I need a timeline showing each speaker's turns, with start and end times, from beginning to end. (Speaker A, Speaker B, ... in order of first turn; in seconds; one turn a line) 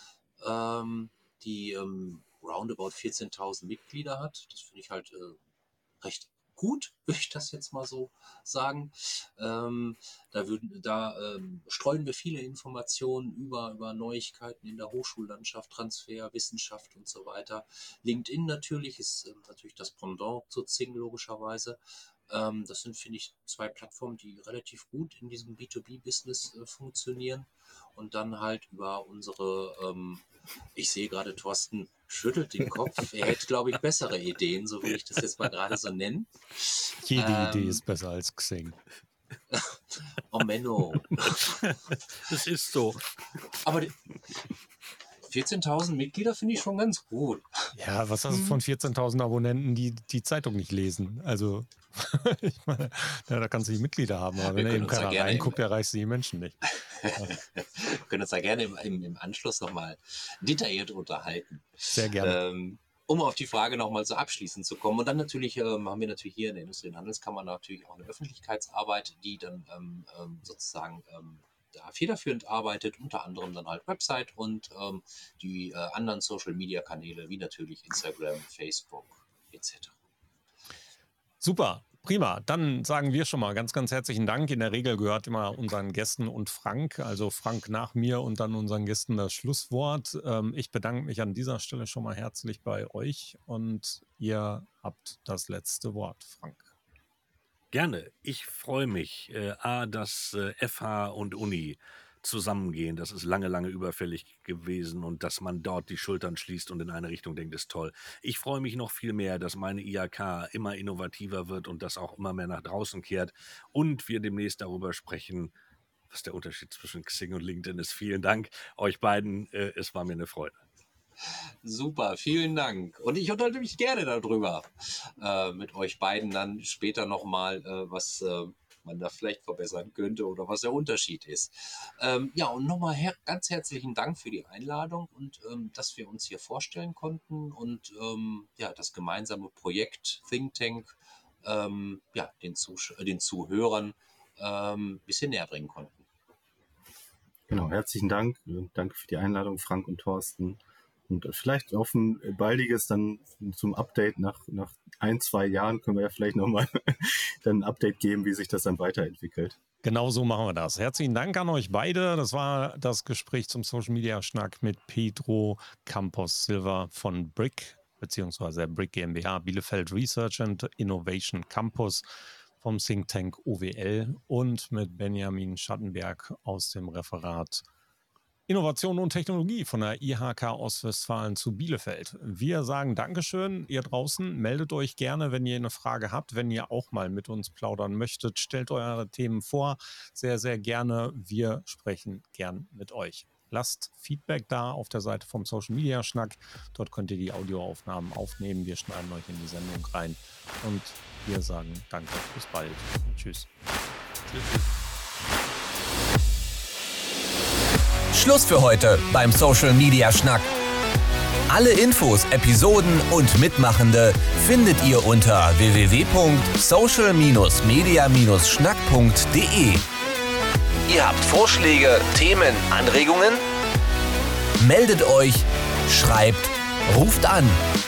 Speaker A: 0.4-5.4
Speaker A: 6.0-21.8
Speaker A: 22.3-30.2
Speaker A: 30.8-37.8
Speaker B: 37.0-38.8
Speaker A: 39.5-41.6
Speaker C: 42.2-43.1
Speaker A: 43.6-43.9
Speaker A: 45.2-47.7
Speaker B: 47.8-56.6
Speaker A: 54.5-55.6
Speaker A: 56.7-80.0
Speaker B: 61.9-62.4
Speaker B: 81.4-96.7
Speaker C: 97.7-115.5
Speaker C: 116.1-120.6
Speaker A: 121.6-146.1
Speaker D: 147.5-159.6
Speaker B: 159.8-172.1
Speaker B: 172.6-177.7
Speaker B: 178.5-203.5
Speaker C: 204.3-204.7
Speaker E: 208.1-210.5
Speaker E: 211.5-219.8
Speaker E: 220.9-223.4
Speaker E: 224.6-227.6